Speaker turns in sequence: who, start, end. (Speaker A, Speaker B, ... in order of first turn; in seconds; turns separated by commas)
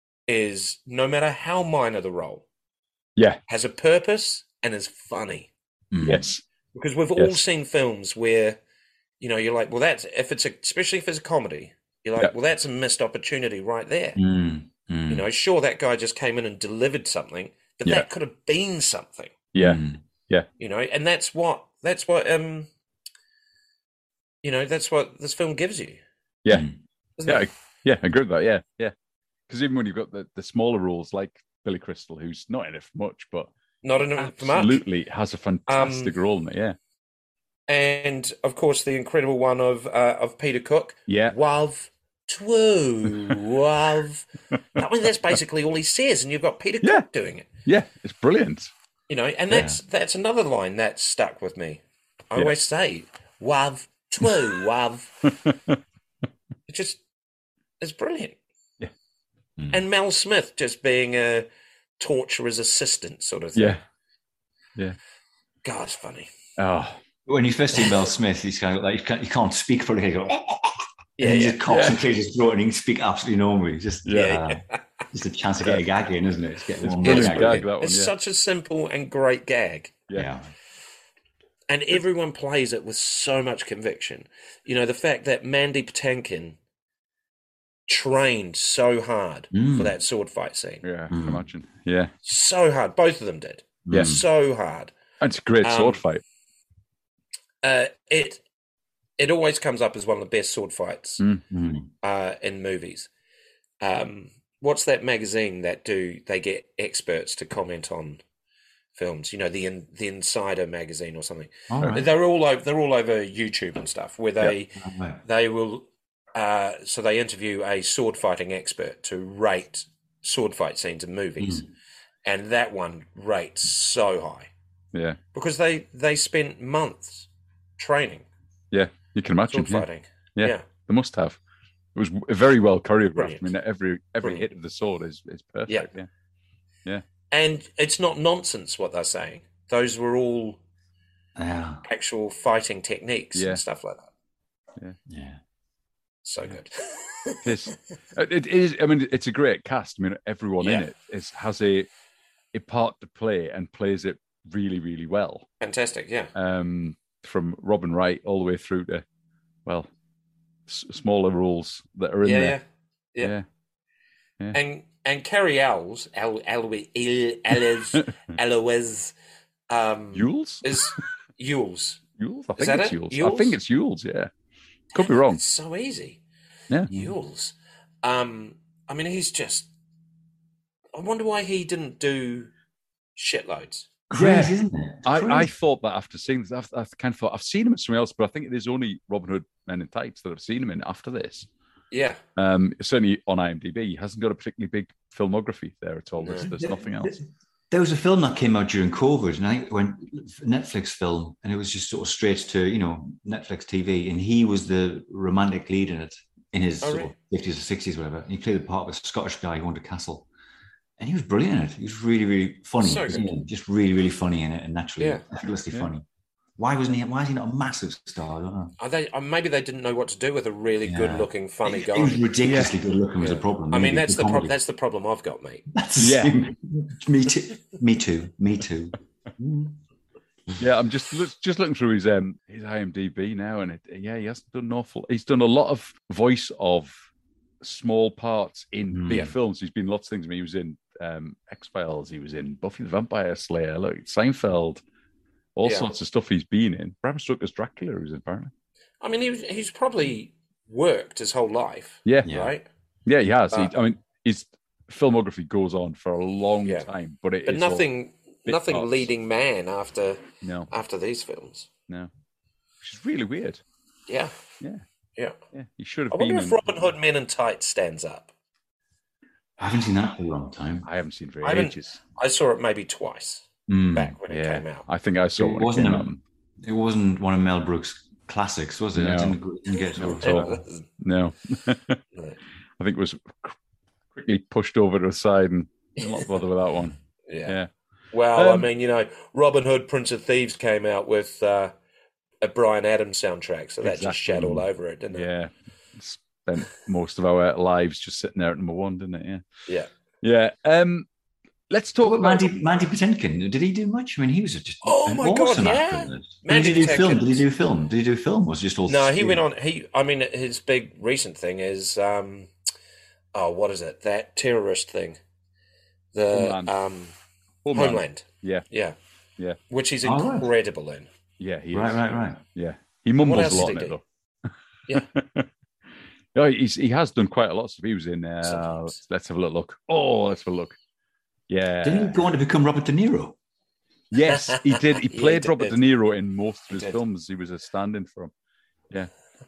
Speaker A: 0.3-2.4, Speaker A: 3.5-5.5, Speaker B: 5.9-6.2, Speaker C: 6.0-6.4, Speaker A: 6.7-8.6, Speaker C: 7.2-7.4, Speaker A: 9.2-14.2, Speaker B: 14.2-15.2, Speaker A: 15.1-19.3, Speaker C: 19.5-20.5, Speaker B: 19.6-20.0, Speaker A: 20.6-22.7, Speaker A: 24.4-26.0, Speaker B: 26.5-26.8, Speaker A: 27.2-27.5, Speaker C: 27.2-28.9, Speaker C: 29.5-33.5, Speaker A: 33.8-34.8, Speaker C: 34.1-36.8, Speaker A: 35.7-36.1, Speaker A: 37.7-47.5, Speaker C: 41.1-41.3, Speaker C: 47.6-48.7, Speaker A: 49.1-55.3, Speaker B: 49.5-49.8, Speaker C: 55.5-55.8, Speaker A: 56.7-57.0, Speaker A: 57.8-58.4, Speaker B: 59.6-59.8, Speaker A: 59.7-61.5, Speaker A: 62.0-63.8, Speaker C: 63.5-63.8, Speaker A: 65.6-66.3, Speaker C: 66.6-67.0, Speaker B: 67.3-77.6, Speaker A: 71.2-71.6, Speaker C: 71.7-72.0, Speaker C: 74.0-74.4, Speaker A: 74.1-74.8, Speaker C: 75.6-75.8, Speaker C: 76.8-78.1, Speaker A: 77.0-80.0, Speaker B: 80.1-80.5, Speaker A: 81.7-86.5, Speaker A: 87.9-90.8, Speaker B: 89.5-89.9, Speaker C: 90.8-92.1, Speaker B: 91.1-91.5, Speaker A: 92.2-94.9, Speaker B: 93.9-94.2, Speaker C: 93.9-94.2, Speaker C: 95.2-96.2, Speaker A: 95.6-96.0, Speaker A: 97.6-98.4, Speaker A: 99.2-101.2, Speaker B: 101.5-101.9, Speaker A: 102.0-103.1, Speaker A: 103.8-108.2, Speaker A: 108.9-121.7, Speaker B: 111.7-112.1, Speaker B: 114.4-115.2, Speaker B: 121.4-121.6, Speaker A: 122.2-124.5, Speaker C: 124.9-125.2, Speaker A: 125.3-128.3, Speaker C: 128.7-131.4, Speaker A: 129.5-130.6, Speaker C: 131.9-136.1, Speaker A: 133.2-133.5, Speaker A: 137.3-140.6, Speaker B: 141.4-141.8, Speaker A: 141.9-144.1, Speaker C: 143.3-143.6, Speaker B: 145.1-145.4, Speaker A: 146.2-147.5, Speaker C: 147.4-151.9, Speaker A: 150.6-150.9, Speaker C: 152.5-155.5, Speaker A: 155.6-156.3, Speaker C: 156.3-159.0, Speaker C: 160.7-162.6, Speaker A: 162.2-162.6, Speaker A: 164.5-169.1, Speaker A: 169.7-172.0, Speaker C: 170.1-170.9, Speaker C: 172.2-174.3, Speaker A: 172.6-173.6, Speaker C: 174.9-175.4, Speaker A: 174.9-176.2, Speaker A: 176.9-179.7, Speaker A: 180.9-182.5, Speaker A: 183.2-183.9, Speaker B: 184.1-185.5, Speaker C: 184.1-191.5, Speaker A: 191.9-192.2, Speaker C: 192.4-197.2, Speaker A: 196.2-196.5, Speaker B: 196.5-210.3, Speaker A: 206.8-207.1, Speaker B: 211.0-216.1, Speaker A: 212.8-213.3, Speaker B: 216.6-218.7, Speaker A: 218.8-222.3, Speaker B: 220.8-224.5, Speaker C: 222.4-222.8, Speaker A: 223.2-225.6, Speaker B: 225.7-229.8, Speaker C: 226.0-226.4, Speaker C: 230.6-236.9, Speaker C: 237.6-244.8, Speaker B: 238.9-239.3, Speaker C: 245.6-248.5, Speaker A: 245.6-245.9, Speaker A: 249.0-252.7, Speaker C: 252.1-252.3, Speaker B: 252.2-252.5, Speaker C: 253.1-257.9, Speaker A: 257.4-261.7, Speaker C: 258.4-259.1, Speaker C: 260.4-260.7, Speaker C: 262.8-263.6, Speaker A: 264.1-264.3, Speaker C: 265.5-266.7, Speaker A: 266.1-268.3, Speaker B: 269.6-270.9, Speaker C: 270.8-272.0, Speaker A: 271.4-274.8, Speaker B: 273.7-274.1, Speaker C: 274.3-276.2, Speaker B: 275.4-276.1, Speaker B: 276.6-280.6, Speaker C: 278.9-279.4, Speaker C: 280.0-282.0, Speaker A: 280.2-280.8, Speaker C: 282.8-283.6, Speaker C: 284.1-287.7, Speaker A: 287.3-287.6, Speaker A: 288.1-291.7, Speaker C: 288.4-288.7, Speaker A: 292.4-295.3, Speaker C: 293.8-299.4, Speaker C: 300.2-301.1, Speaker C: 301.7-302.5, Speaker B: 302.0-309.4, Speaker A: 304.8-307.4, Speaker A: 308.9-312.5, Speaker A: 313.3-315.2, Speaker A: 316.1-317.1, Speaker C: 316.3-316.7, Speaker C: 317.6-318.6, Speaker A: 317.7-319.0, Speaker A: 319.7-321.1, Speaker B: 320.0-320.5, Speaker C: 321.4-324.0, Speaker B: 321.7-322.4, Speaker A: 323.2-324.0, Speaker C: 325.1-325.5, Speaker C: 326.3-330.8, Speaker A: 328.4-329.0, Speaker C: 331.5-332.2, Speaker B: 331.8-333.4, Speaker C: 334.1-338.3, Speaker A: 334.3-335.8, Speaker A: 336.7-337.0